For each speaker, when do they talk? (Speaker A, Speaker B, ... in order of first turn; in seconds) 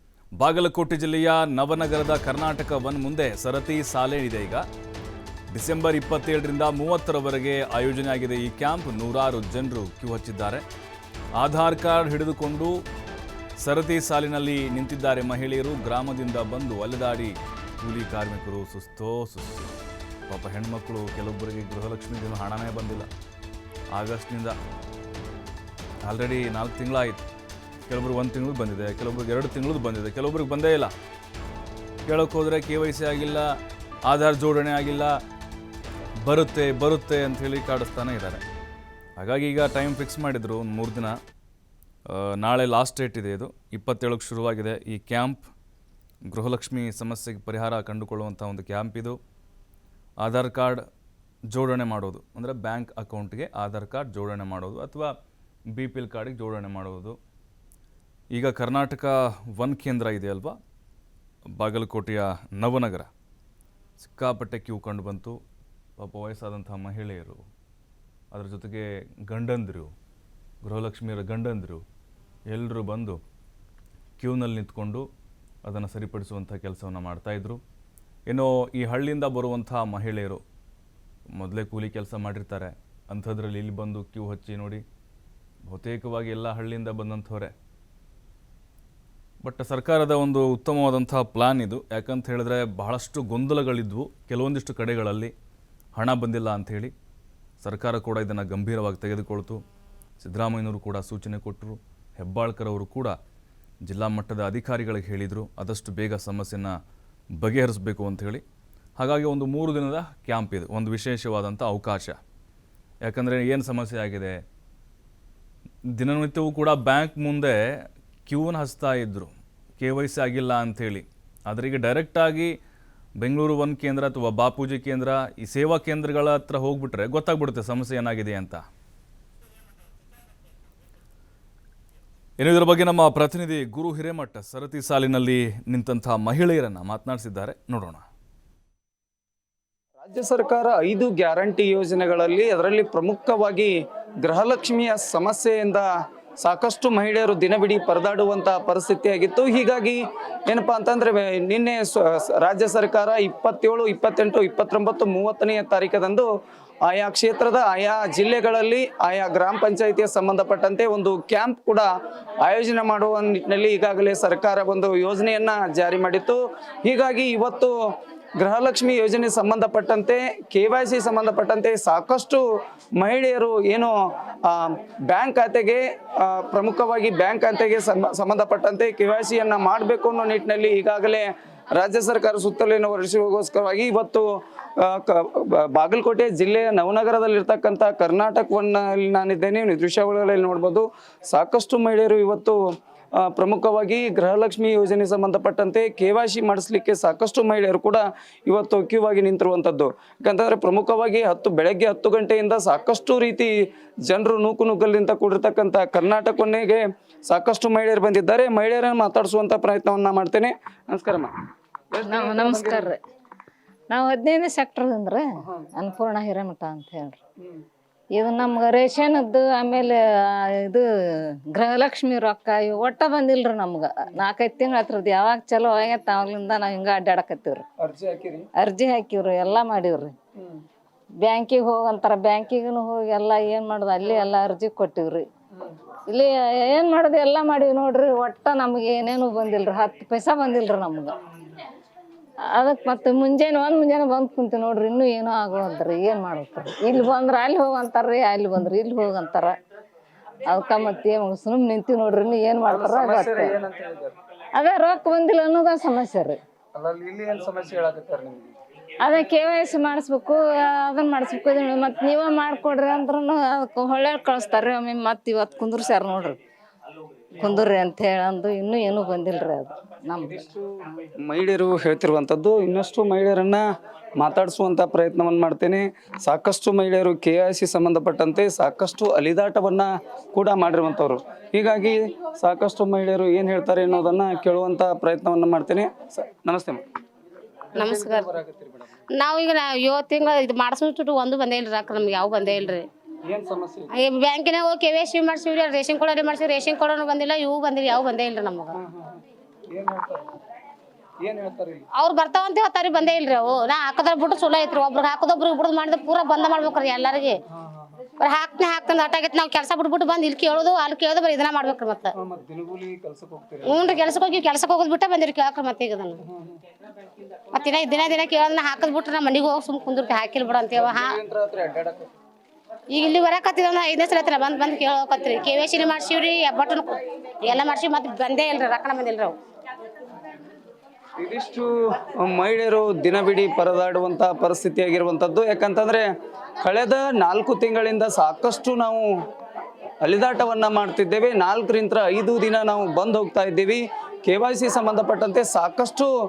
Speaker A: 0.3-4.7, 5.5-10.6, 11.4-12.8, 13.6-19.7, 20.3-23.1, 23.9-24.6, 26.0-27.2, 27.9-30.9, 32.0-35.2, 36.2-38.4, 39.2-41.2, 42.1-45.5, 46.3-49.2, 50.2-50.8, 51.5-55.1, 55.7-57.2, 58.3-60.6, 61.5-63.1, 64.0-65.4, 66.0-67.4, 68.3-69.9, 70.6-71.8, 72.5-73.2, 74.2-75.1, 75.6-77.6, 78.3-80.4, 81.3-84.8, 85.6-87.5, 89.4-95.3, 96.0-96.9, 97.6-99.6, 100.2-103.2, 103.8-106.7, 107.3-108.4, 109.0-112.2, 113.0-114.4, 115.9-117.6, 118.2-122.5, 123.2-128.6, 132.4-138.1
Speaker B: 140.0-145.9, 146.4-156.3, 156.8-161.9, 162.4-167.8, 168.4-172.4, 173.0-173.9, 174.4-192.6, 193.2-203.5, 204.1-211.3, 211.9-212.9, 215.4-215.7, 227.8-228.5, 230.4-230.6, 252.7-254.2, 256.8-258.6, 271.1-273.6, 274.1-286.8, 287.7-288.9, 293.2-293.9, 298.7-299.2, 299.7-300.3, 301.2-301.9, 307.5-308.1, 312.1-314.1, 316.2-316.6, 320.7-322.1, 331.2-336.1, 336.6-339.1, 340.0-346.1
Speaker C: 212.1-213.0, 213.9-217.2, 218.2-220.8, 221.5-227.7, 228.6-230.1, 231.2-235.2, 236.1-241.2, 242.5-249.5, 250.5-253.5, 254.6-256.4, 259.0-266.4, 267.4-270.4
Speaker D: 287.8-288.3, 289.1-292.9, 293.9-298.8, 301.9-307.4, 308.2-312.1, 313.6-316.2, 317.5-321.2, 322.9-329.4